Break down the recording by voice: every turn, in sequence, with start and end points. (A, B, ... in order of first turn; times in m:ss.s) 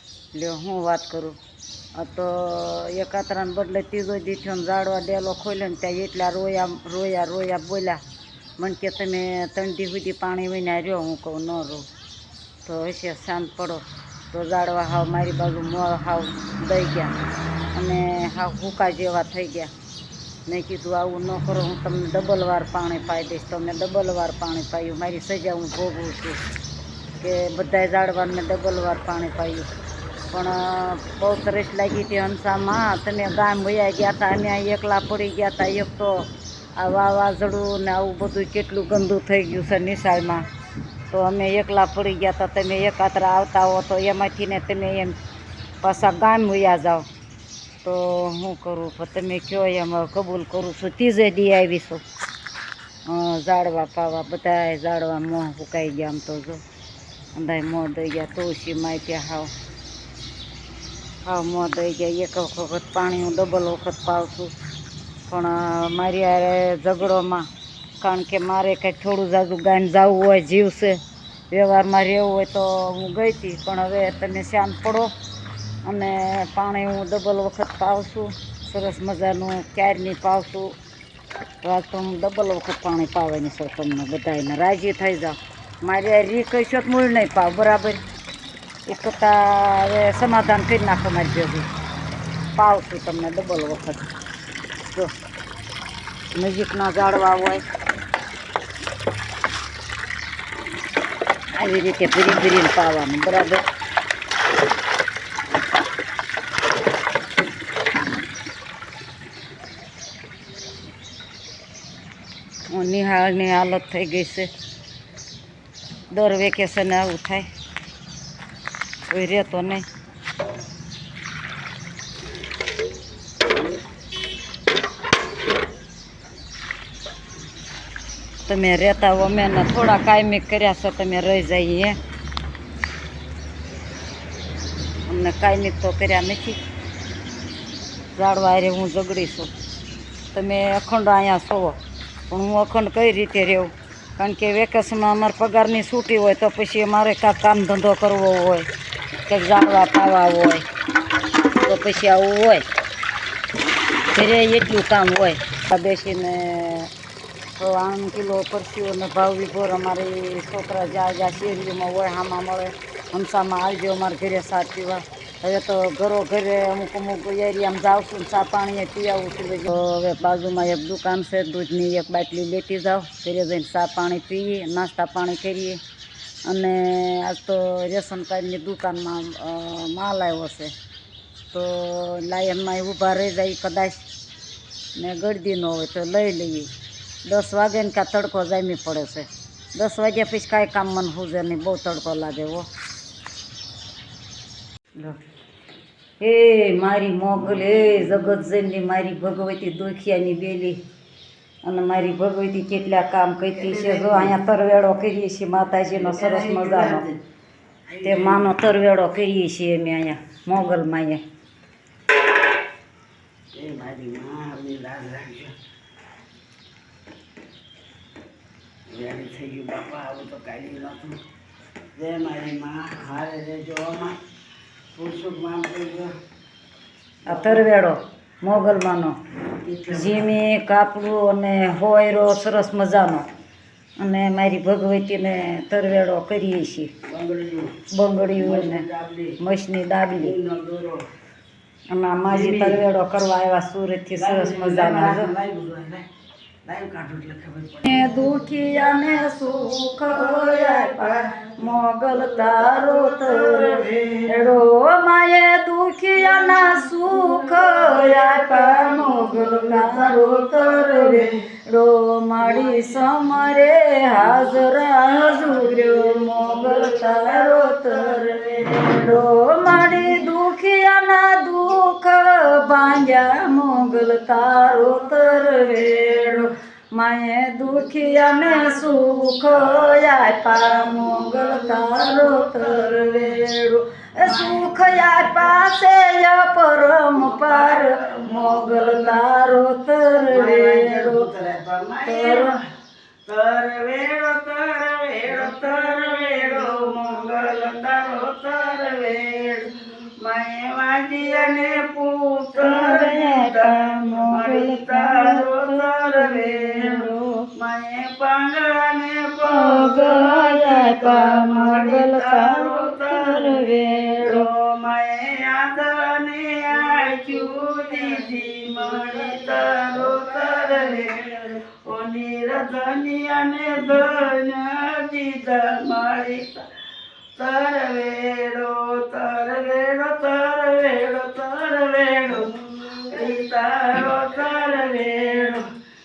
0:00.3-0:01.4 A
0:02.0-0:08.0 A
0:08.6-0:11.9 A
0:12.6-0:17.2 A
0:17.7-0:19.7 A
0:20.5-0:26.4 A
0:27.2-0:29.7 A
0:30.3-0:40.5 A
0:41.1-0:45.2 A
0:45.8-0:47.1 A
0:47.8-0:52.0 A
0:53.1-0:56.6 A
0:57.4-0:59.5 A
1:01.2-1:04.5 A
1:05.3-1:07.5 A
1:08.0-1:11.0 A
1:11.5-1:15.1 A
1:15.8-1:20.8 A
1:21.6-1:28.0 A
1:28.9-1:31.7 A
1:32.6-1:34.1 A
1:36.4-1:37.6 A
1:41.6-1:43.6 A
1:52.7-1:54.5 A
1:56.1-1:57.5 A
1:59.1-1:59.9 A
2:08.5-2:12.0 A
2:15.1-2:16.6 A
2:18.2-2:19.5 A
2:20.3-2:21.8 A
2:22.3-2:28.7 A
2:29.3-2:30.6 A
2:31.6-2:32.6 A
2:34.1-2:36.9 A
2:37.6-2:55.8 A
2:56.5-3:00.7 A
3:01.5-3:04.0 A
3:05.0-3:06.7 A
3:07.3-3:12.7 A
3:16.2-3:20.8 A
3:21.6-3:27.1 A
3:23.6-3:24.4 B
3:26.0-3:27.2 B
3:27.9-3:28.5 B
3:28.0-3:31.2 A
3:33.5-3:35.6 B
3:38.9-3:41.2 B
3:42.0-3:44.2 B
3:44.9-3:46.2 B
3:47.3-3:49.2 A
3:47.3-3:47.7 B
3:49.6-3:50.3 B
3:49.9-3:53.3 A
3:54.0-3:56.9 A
3:57.1-3:57.8 B
3:57.9-3:58.8 A
3:58.3-3:59.4 B
3:59.4-4:00.4 A
4:00.2-4:01.1 B
4:01.9-4:05.3 A
4:02.3-4:02.8 B
4:04.2-4:06.1 B
4:06.6-4:08.2 B
4:07.8-4:51.3 A
4:10.1-4:11.6 B
4:12.5-4:14.5 B
4:17.6-4:21.4 B
4:22.4-4:22.9 B
4:24.2-4:29.2 B
4:38.2-4:38.8 B
4:39.5-4:43.4 B
4:44.2-4:45.4 B
4:47.1-4:49.2 B
4:50.2-4:52.7 B
4:52.0-4:52.6 A
4:53.3-5:26.7 B
5:02.6-5:07.5 A
5:09.5-5:14.5 A
5:27.4-5:35.7 B